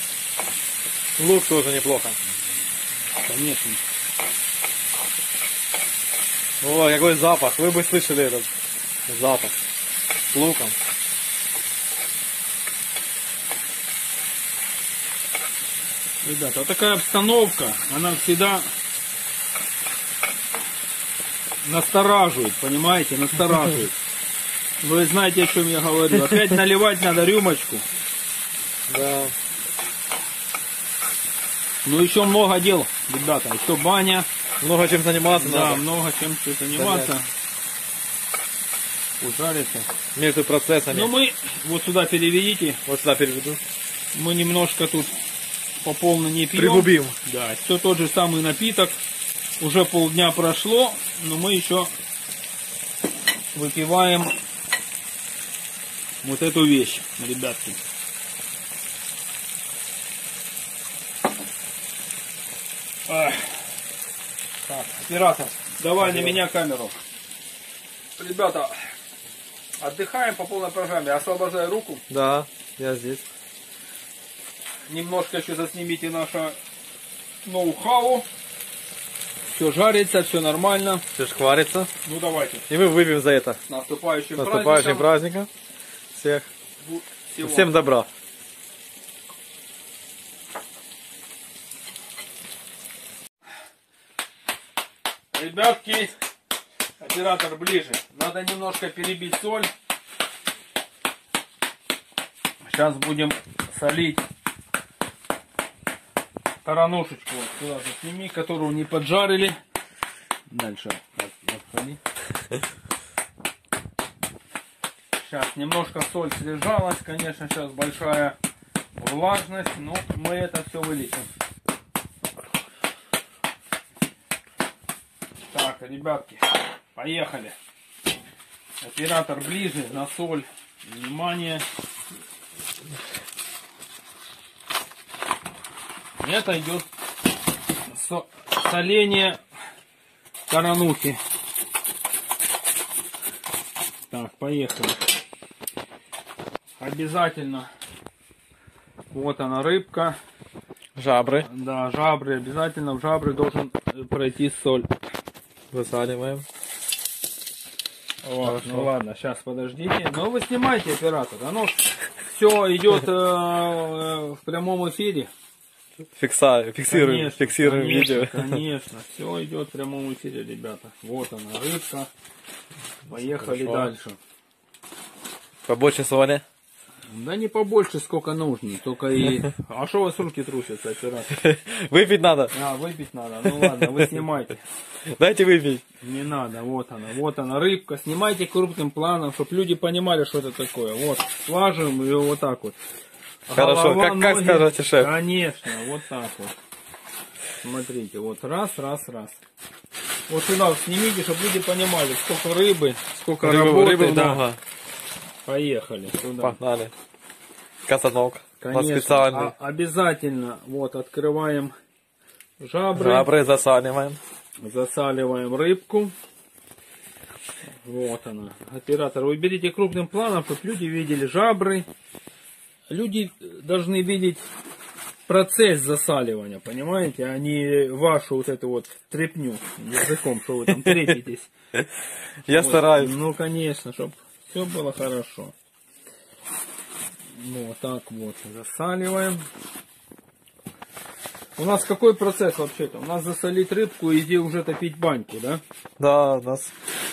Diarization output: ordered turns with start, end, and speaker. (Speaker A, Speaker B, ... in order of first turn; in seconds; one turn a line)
Speaker A: 1.2-2.2
Speaker B: 3.2-3.8
Speaker A: 6.6-8.5
Speaker A: 9.1-9.6
Speaker A: 10.3-10.8
Speaker B: 16.2-18.7
Speaker B: 21.6-23.9
Speaker B: 24.8-27.8
Speaker A: 28.9-29.3
Speaker B: 31.8-34.3
Speaker A: 34.6-35.8
Speaker B: 35.3-37.2
Speaker A: 36.7-37.1
Speaker B: 39.2-39.9
Speaker A: 40.1-41.1
Speaker B: 40.9-42.8
Speaker A: 42.9-43.6
Speaker B: 44.1-45.1
Speaker B: 45.8-49.0
Speaker A: 46.5-47.1
Speaker B: 49.6-51.9
Speaker B: 53.5-54.3
Speaker B: 56.2-57.8
Speaker B: 63.1-63.6
Speaker B: 64.6-66.9
Speaker A: 66.0-66.4
Speaker B: 68.2-68.7
Speaker B: 69.8-72.0
Speaker A: 72.1-73.3
Speaker B: 74.9-76.6
Speaker B: 77.4-78.3
Speaker B: 79.5-81.0
Speaker A: 81.2-81.9
Speaker B: 82.0-82.7
Speaker A: 82.7-83.6
Speaker B: 83.7-85.1
Speaker A: 84.3-85.5
Speaker A: 86.1-86.5
Speaker B: 86.8-87.8
Speaker A: 87.4-88.1
Speaker B: 95.3-96.1
Speaker B: 97.0-99.7
Speaker B: 102.6-104.2
Speaker B: 106.6-109.6
Speaker B: 110.5-112.0
Speaker B: 115.2-118.3
Speaker B: 119.0-121.3
Speaker B: 125.5-127.5
Speaker B: 128.8-131.6
Speaker B: 136.2-136.9
Speaker B: 137.9-139.4
Speaker B: 140.5-141.2
Speaker B: 144.1-145.0
Speaker B: 146.8-147.7
Speaker B: 149.1-150.2
Speaker A: 150.9-151.5
Speaker B: 151.4-154.9
Speaker A: 155.7-156.4
Speaker B: 158.2-165.3
Speaker A: 158.4-158.9
Speaker A: 166.1-168.6
Speaker B: 166.8-172.1
Speaker B: 173.1-174.2
Speaker A: 173.2-173.9
Speaker A: 175.7-176.4
Speaker B: 177.1-181.4
Speaker A: 181.3-182.5
Speaker B: 182.5-184.6
Speaker A: 183.4-184.1
Speaker A: 185.1-185.8
Speaker B: 186.0-192.8
Speaker A: 193.5-195.1
Speaker B: 193.5-196.5
Speaker B: 197.6-199.4
Speaker B: 200.3-204.4
Speaker A: 203.4-204.6
Speaker B: 205.4-206.6
Speaker A: 206.3-206.9
Speaker A: 207.8-209.5
Speaker B: 208.6-211.7
Speaker B: 212.6-213.3
Speaker A: 212.9-214.2
Speaker B: 214.6-216.1
Speaker B: 217.8-221.9
Speaker B: 222.9-224.4
Speaker B: 225.3-231.5
Speaker A: 230.8-231.1
Speaker A: 232.4-233.2
Speaker B: 232.5-235.5
Speaker B: 237.3-239.4
Speaker B: 241.6-245.6
Speaker A: 246.0-246.7